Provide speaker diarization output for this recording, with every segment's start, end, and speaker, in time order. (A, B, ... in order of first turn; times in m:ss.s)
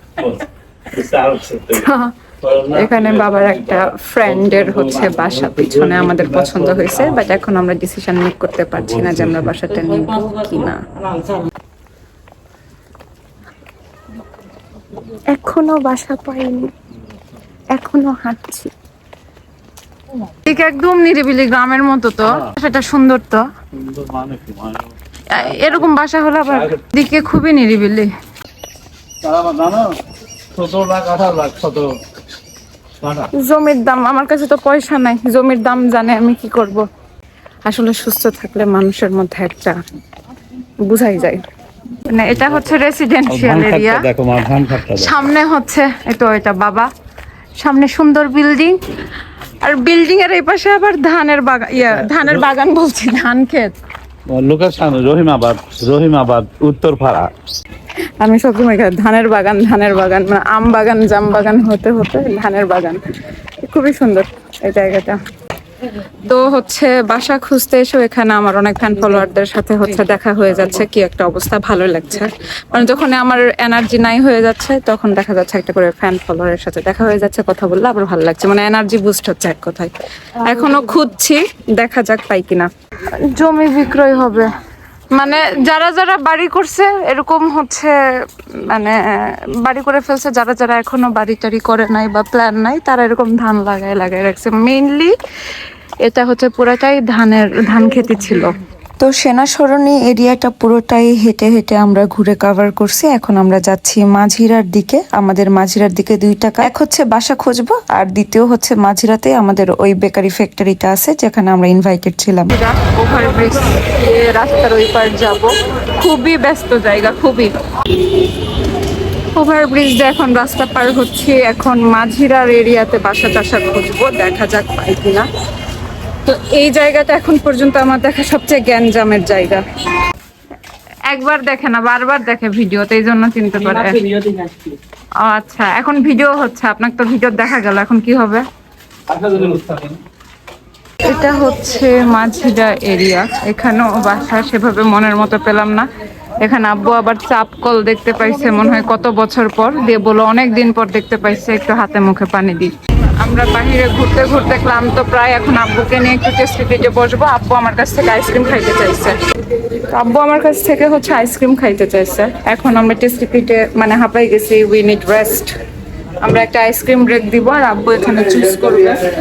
0:00.2-0:01.9 A
0:01.7-0:02.1 B
0:02.4-0:07.3 A
0:02.7-0:10.8 B
0:08.8-0:09.6 A
0:15.4-0:15.6 B
0:15.4-0:16.6 C
0:17.7-0:18.7 B
0:20.4-0:23.4 B
0:23.7-0:25.9 A
0:25.3-0:28.1 B
0:26.5-0:26.8 A
0:29.2-0:29.9 A
0:30.5-0:31.9 A
0:33.0-0:33.3 A
0:33.4-0:36.8 B
0:37.6-0:39.8 B
0:40.8-0:41.4 B
0:42.1-0:44.0 B
0:42.3-0:42.6 A
0:43.3-0:45.2 A
0:44.9-0:46.9 B
0:47.6-0:48.8 B
0:49.6-0:53.7 B
0:51.8-0:52.4 A
0:54.3-0:57.3 A
0:58.2-1:03.0 B
1:03.6-1:05.2 B
1:06.2-1:24.5 B
1:25.1-1:28.0 B
1:28.5-1:35.1 B
1:36.0-1:38.6 B
1:39.0-1:43.6 C
1:43.5-1:46.7 B
1:44.6-1:52.5 C
1:52.5-1:57.5 B
1:59.3-2:05.3 B
2:06.2-2:09.6 B
2:11.1-2:14.0 B
2:14.0-2:14.6 A
2:15.2-2:18.4 B
2:19.1-2:20.0 A
2:21.0-2:25.9 B
2:26.4-2:39.2 B
2:39.9-2:45.6 B
2:46.2-2:49.0 B